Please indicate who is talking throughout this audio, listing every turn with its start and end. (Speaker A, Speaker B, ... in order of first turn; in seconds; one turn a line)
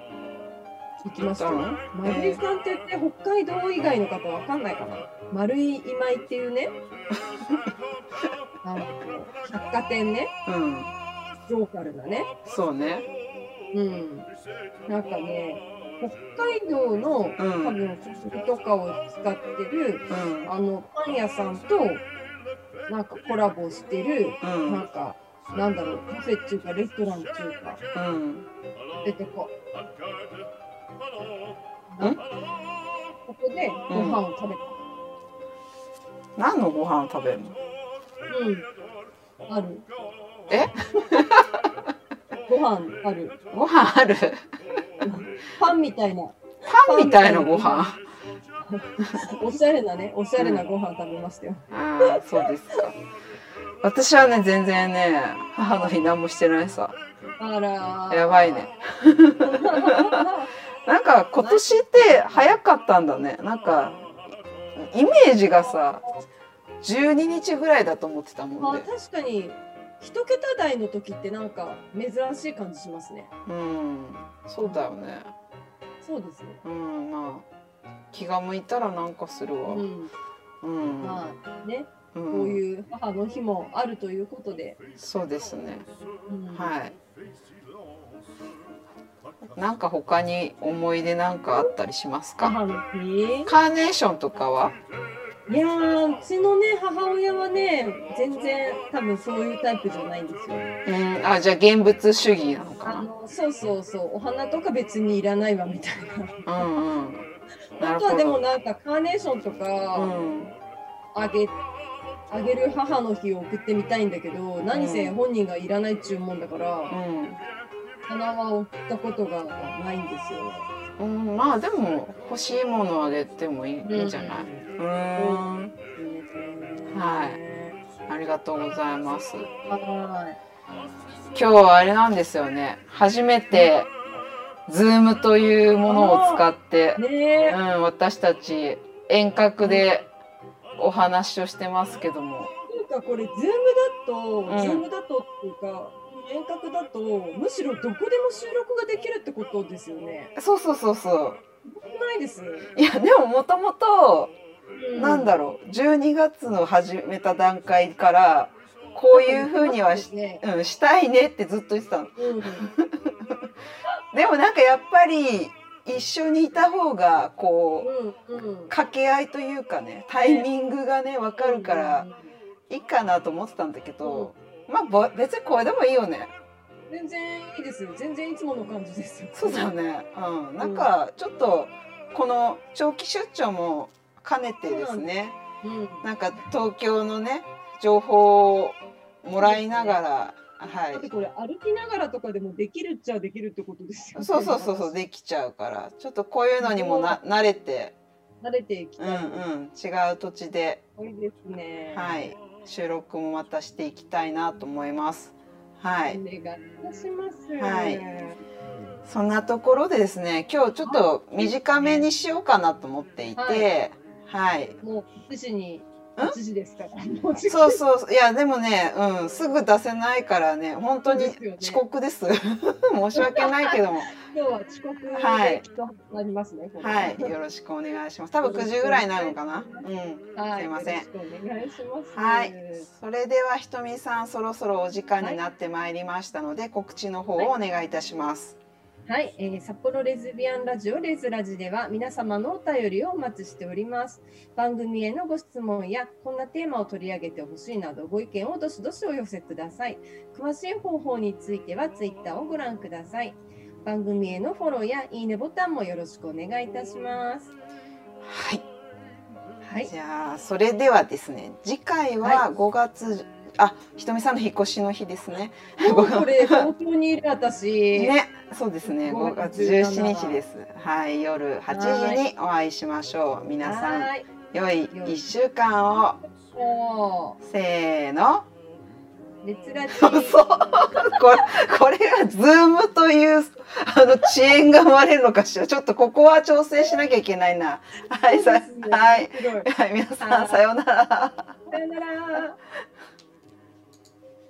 Speaker A: 1.0-6.8
Speaker B: 1.2-2.4
Speaker A: 8.6-10.3
Speaker B: 10.4-10.9
Speaker A: 11.5-12.3
Speaker B: 12.4-13.1
Speaker A: 13.7-14.3
Speaker A: 14.9-22.1
Speaker B: 17.4-17.8
Speaker B: 20.1-20.5
Speaker A: 22.9-27.8
Speaker B: 24.4-24.8
Speaker B: 27.9-28.5
Speaker A: 29.0-29.5
Speaker A: 31.9-32.2
Speaker A: 33.3-34.8
Speaker B: 33.9-34.2
Speaker B: 36.4-37.6
Speaker A: 38.3-38.6
Speaker A: 39.5-39.9
Speaker B: 40.5-41.5
Speaker A: 42.5-43.4
Speaker B: 43.5-44.4
Speaker A: 45.0-47.9
Speaker B: 46.7-48.0
Speaker A: 48.7-52.2
Speaker B: 50.4-50.6
Speaker B: 51.7-53.0
Speaker B: 53.8-57.0
Speaker A: 57.4-58.7
Speaker B: 58.1-60.2
Speaker A: 59.4-60.5
Speaker B: 60.9-64.1
Speaker A: 61.4-62.6
Speaker B: 64.8-66.0
Speaker B: 66.8-68.9
Speaker A: 68.6-73.3
Speaker B: 73.5-75.3
Speaker A: 74.6-74.8
Speaker A: 76.0-76.6
Speaker B: 76.6-77.5
Speaker B: 78.1-79.9
Speaker A: 79.7-80.1
Speaker B: 80.6-81.2
Speaker A: 81.0-84.8
Speaker B: 82.1-82.6
Speaker B: 85.0-85.9
Speaker A: 86.3-86.7
Speaker B: 86.5-87.0
Speaker B: 89.5-92.5
Speaker A: 92.4-93.5
Speaker B: 93.5-94.8
Speaker A: 95.5-100.7
Speaker B: 100.8-103.1
Speaker A: 102.8-106.6
Speaker B: 106.5-107.3
Speaker B: 107.8-108.4
Speaker A: 107.8-110.3
Speaker B: 109.9-110.5
Speaker A: 111.1-111.6
Speaker A: 112.3-117.0
Speaker B: 114.7-115.1
Speaker B: 116.9-117.4
Speaker A: 118.1-120.7
Speaker B: 121.0-125.7
Speaker A: 123.8-127.8
Speaker B: 126.9-127.4
Speaker B: 128.1-129.5
Speaker A: 129.7-130.4
Speaker B: 131.3-133.9
Speaker B: 134.7-140.1
Speaker A: 135.8-136.4
Speaker A: 136.9-137.6
Speaker A: 139.6-139.9
Speaker B: 140.8-142.5
Speaker A: 142.7-150.3
Speaker B: 144.5-144.8
Speaker B: 150.3-151.4
Speaker A: 151.6-152.7
Speaker B: 152.7-154.3
Speaker A: 154.7-155.4
Speaker B: 154.9-163.3
Speaker A: 159.1-160.4
Speaker A: 162.2-162.7
Speaker B: 164.1-167.9
Speaker A: 167.8-168.7
Speaker B: 168.7-172.1
Speaker A: 170.2-170.5
Speaker A: 171.4-172.3
Speaker B: 172.7-176.3
Speaker A: 174.0-174.3
Speaker A: 176.9-179.7
Speaker B: 179.3-185.4
Speaker A: 180.6-180.9
Speaker A: 184.6-185.1
Speaker A: 185.6-186.1
Speaker B: 186.0-191.1
Speaker A: 189.4-190.0
Speaker A: 190.9-194.9
Speaker B: 194.2-197.9
Speaker A: 196.6-197.2
Speaker A: 198.4-199.4
Speaker B: 199.0-200.8
Speaker A: 201.0-202.2
Speaker B: 201.9-206.2
Speaker A: 206.1-208.4
Speaker B: 207.6-208.0
Speaker B: 209.1-214.8
Speaker A: 210.8-211.6
Speaker A: 213.3-213.7
Speaker A: 214.8-217.8
Speaker B: 217.5-224.1
Speaker A: 221.1-221.8
Speaker A: 223.1-227.3
Speaker B: 225.1-225.6
Speaker B: 226.8-231.1
Speaker A: 228.4-232.9
Speaker B: 232.1-238.6
Speaker A: 239.1-257.5
Speaker B: 258.2-258.7
Speaker A: 259.6-259.9
Speaker B: 259.8-266.7
Speaker A: 262.2-262.4
Speaker A: 265.8-268.1
Speaker B: 267.9-276.2
Speaker A: 268.8-270.4
Speaker A: 271.7-272.2
Speaker A: 273.6-274.2
Speaker A: 274.9-275.3
Speaker A: 276.0-277.4
Speaker B: 277.4-278.4
Speaker A: 279.4-280.4
Speaker B: 279.9-291.5
Speaker A: 288.2-290.6
Speaker A: 291.6-292.6